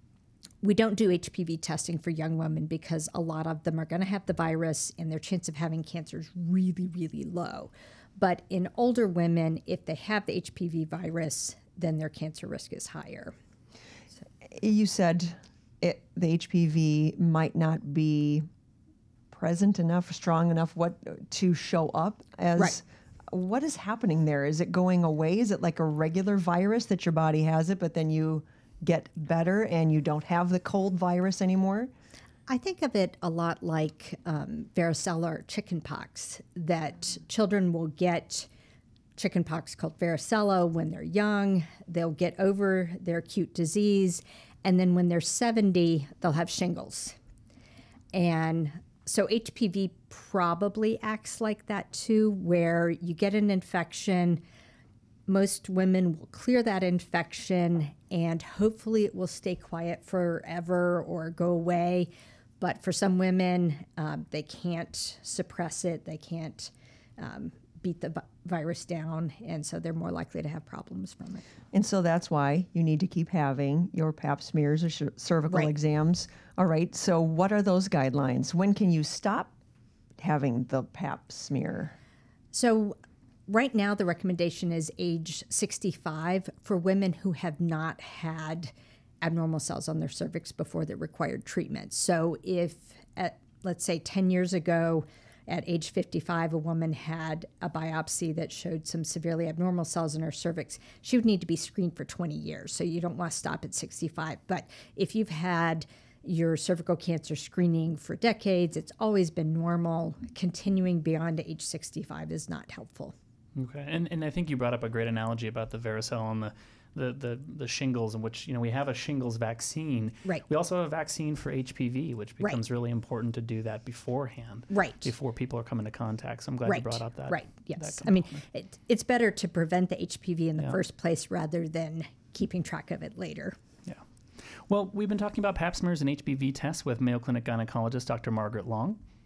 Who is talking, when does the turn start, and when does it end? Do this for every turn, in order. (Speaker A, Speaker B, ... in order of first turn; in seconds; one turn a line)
Speaker A: 0.6-13.3
Speaker B: 14.5-18.5
Speaker B: 19.3-31.9
Speaker A: 32.5-38.5
Speaker A: 39.2-47.2
Speaker A: 48.1-54.4
Speaker A: 55.3-71.5
Speaker B: 71.7-79.5
Speaker B: 80.2-82.0
Speaker A: 82.5-113.1
Speaker C: 113.6-128.4
Speaker A: 124.7-125.1
Speaker A: 126.7-133.6
Speaker C: 134.7-139.0